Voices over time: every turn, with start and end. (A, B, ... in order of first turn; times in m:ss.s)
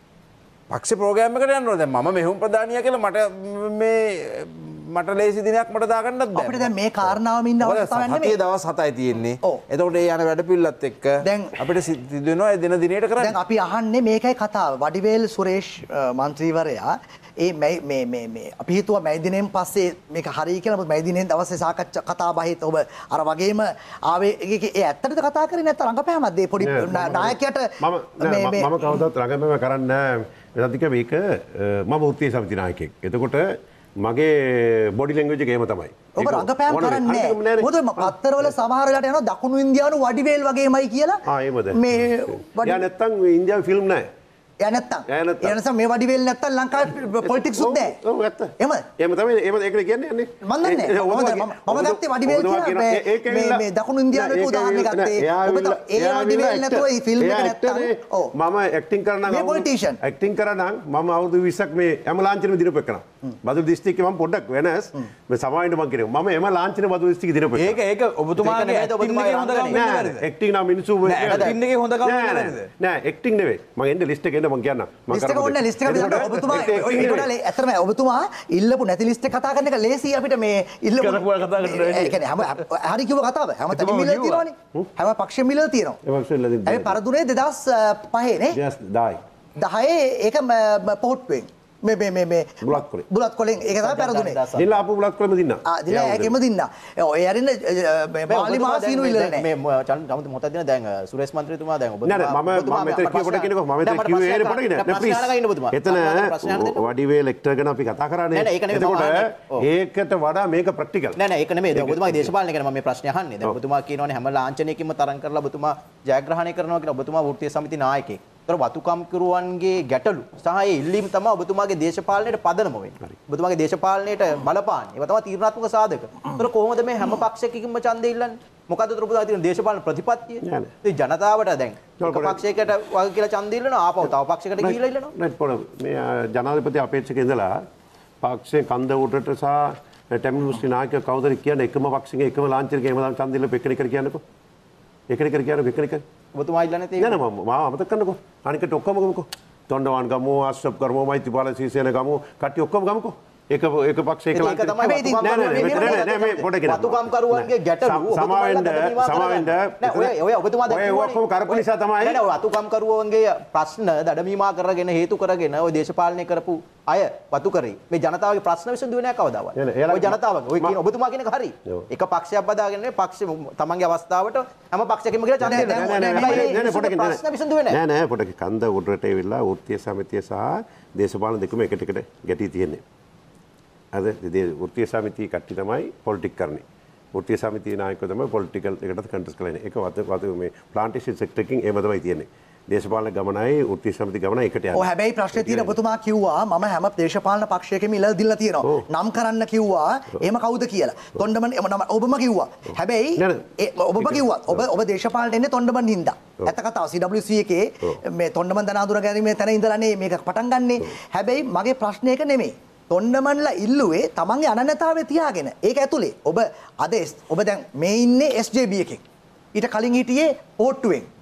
0:00.7-0:13.4 A
0:06.3-0:08.4 B
0:11.2-0:11.5 B
0:13.2-0:28.9 B
0:26.6-0:38.5 C
0:36.2-0:41.2 B
0:41.3-0:44.1 C
0:41.7-0:42.8 B
0:44.6-0:47.9 B
0:45.1-0:45.6 C
0:47.2-1:07.8 C
0:48.6-0:48.9 B
0:50.4-0:58.3 B
0:59.3-1:00.0 B
1:07.6-1:10.3 D
1:08.4-1:09.8 E
1:09.7-1:17.3 C
1:11.0-1:12.7 D
1:11.2-1:11.5 E
1:15.1-1:26.0 B
1:15.9-1:16.4 D
1:21.0-1:22.2 C
1:23.7-1:24.4 D
1:26.0-1:27.0 C
1:26.6-1:28.6 B
1:28.5-1:29.2 C
1:29.6-1:34.4 B
1:32.6-1:33.0 C
1:33.8-1:34.8 E
1:34.5-1:36.3 C
1:35.7-1:39.4 B
1:38.3-1:46.9 E
1:42.0-1:51.2 C
1:48.3-1:49.6 E
1:51.2-2:15.1 E
1:51.7-1:52.3 C
2:10.4-2:10.7 C
2:12.0-2:12.4 C
2:14.6-2:17.6 C
2:18.2-2:24.2 C
2:25.1-2:26.0 C
2:26.3-2:27.2 E
2:27.0-2:42.2 C
2:34.3-2:57.8 E
2:34.8-2:36.0 B
2:49.6-2:50.8 C
2:55.4-3:02.8 C
2:55.4-2:56.6 B
3:03.9-3:06.6 C
3:07.1-3:15.8 C
3:14.7-3:39.0 B
3:23.2-3:23.4 C
3:24.0-3:24.6 C
3:39.5-3:41.1 B